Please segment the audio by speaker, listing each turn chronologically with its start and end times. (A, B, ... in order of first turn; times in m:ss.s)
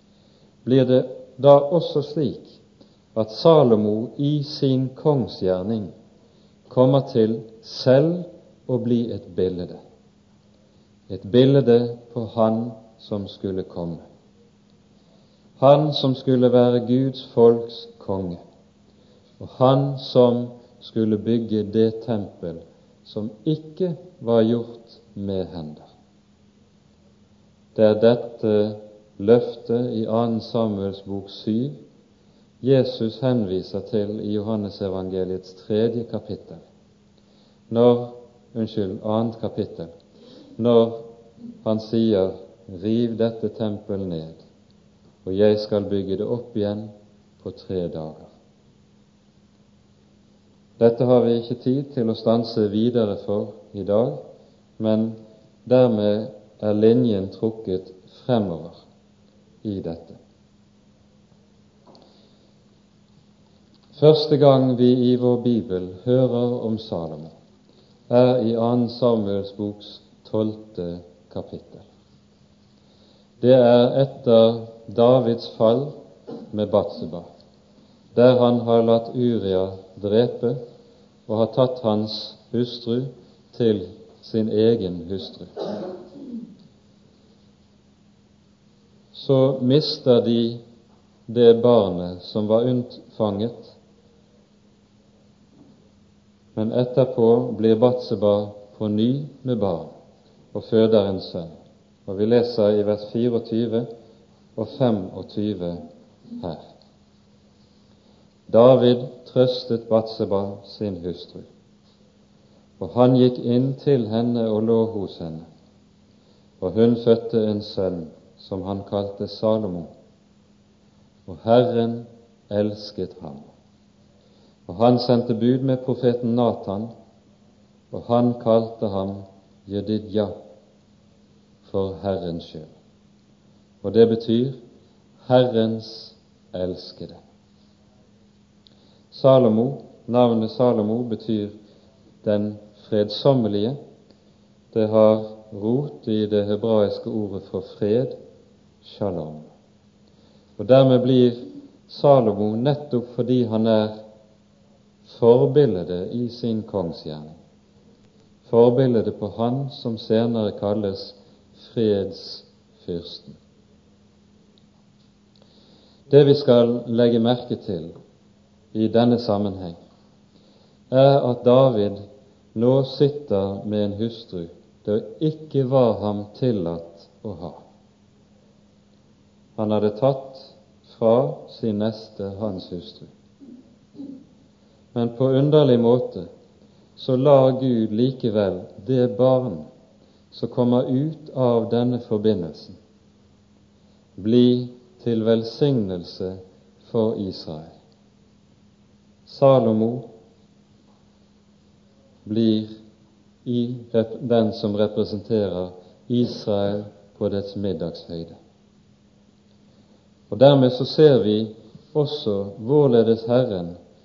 0:00.6-0:02.6 A
0:03.2-0:05.9 A
0:06.7-0:09.8 A
0:11.1-0:14.0 A
0:15.6-0:18.4 A
0:19.4-0:25.9 A
0:27.8-0:31.8 A
0:32.6-0:36.6 A
0:37.7-0:39.9 A
0:40.6-0:41.1 A
0:41.6-0:44.4 A
0:45.2-0:48.3 A
0:50.8-0:54.2 A
0:54.8-0:58.8 A
0:59.6-1:00.2 A
1:03.9-1:07.3 A
1:08.1-1:11.9 A
1:13.4-1:16.0 A
1:16.5-1:17.3 A
1:18.1-1:20.6 A
1:21.3-1:25.5 A
1:29.1-1:30.6 A
1:31.3-1:33.8 A
1:36.6-1:39.9 A
1:40.5-1:43.9 A
1:44.6-1:45.8 A
1:46.4-1:46.7 A
1:48.5-1:51.5 A
1:52.8-1:55.5 A
1:56.6-1:59.9 A
2:01.3-2:03.5 A
2:04.7-2:06.9 A
2:07.9-2:10.4 A
2:11.6-2:12.7 A
2:13.8-2:14.6 A
2:15.2-2:17.2 A
2:19.1-2:21.6 A
2:22.2-2:23.8 A
2:24.7-2:28.2 A
2:28.8-2:29.5 A
2:30.6-2:34.0 A
2:35.0-2:37.4 A
2:38.5-2:43.4 A
2:46.1-2:48.0 A
2:48.7-2:49.8 A
2:50.9-2:52.0 A
2:52.5-2:57.6 A
2:59.6-3:03.1 A
3:04.9-3:06.3 A
3:07.0-3:09.7 A
3:10.3-3:12.8 A
3:14.2-3:17.8 A
3:19.3-3:20.1 A
3:22.2-3:22.7 A
3:23.4-3:28.4 A
3:30.3-3:33.8 A